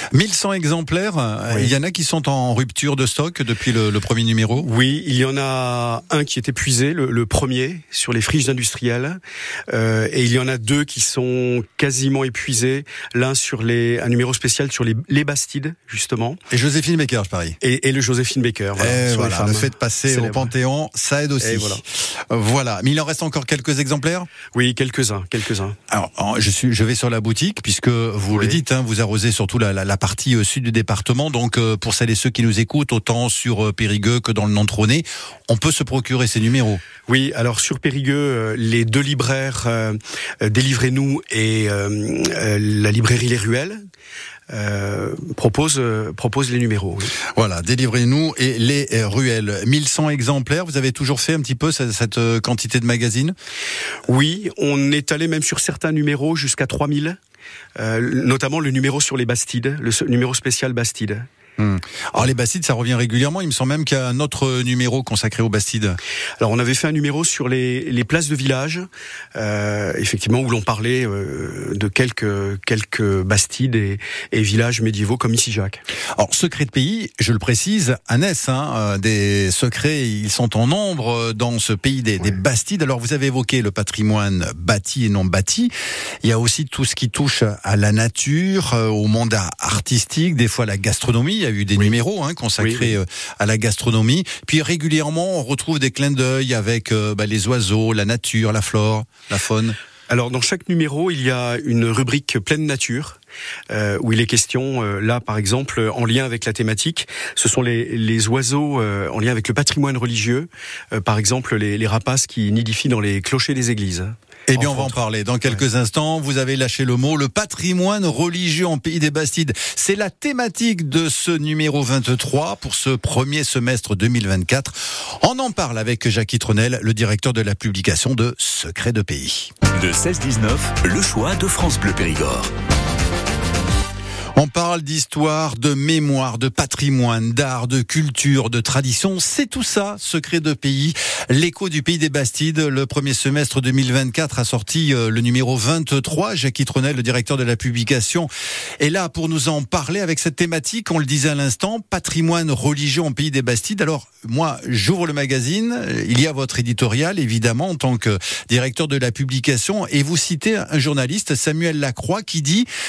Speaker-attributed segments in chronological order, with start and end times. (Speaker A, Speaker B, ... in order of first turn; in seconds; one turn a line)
Speaker A: 0.1-4.7
Speaker B: 4.6-16.4
Speaker A: 16.5-17.6
Speaker B: 17.6-20.5
Speaker A: 18.8-24.3
Speaker B: 21.4-21.8
Speaker B: 24.5-25.8
Speaker A: 25.9-36.8
Speaker B: 28.3-28.6
Speaker B: 37.0-43.8
Speaker B: 44.5-47.1
Speaker A: 47.3-53.3
Speaker B: 54.0-57.2
Speaker B: 57.8-61.2
Speaker A: 61.6-66.0
Speaker B: 66.4-75.8
Speaker A: 76.2-85.7
Speaker A: 86.2-99.8
Speaker B: 92.6-92.9
Speaker B: 100.1-103.2
Speaker B: 103.7-115.0
Speaker A: 114.5-129.5
Speaker C: 129.8-132.5
Speaker A: 134.3-162.7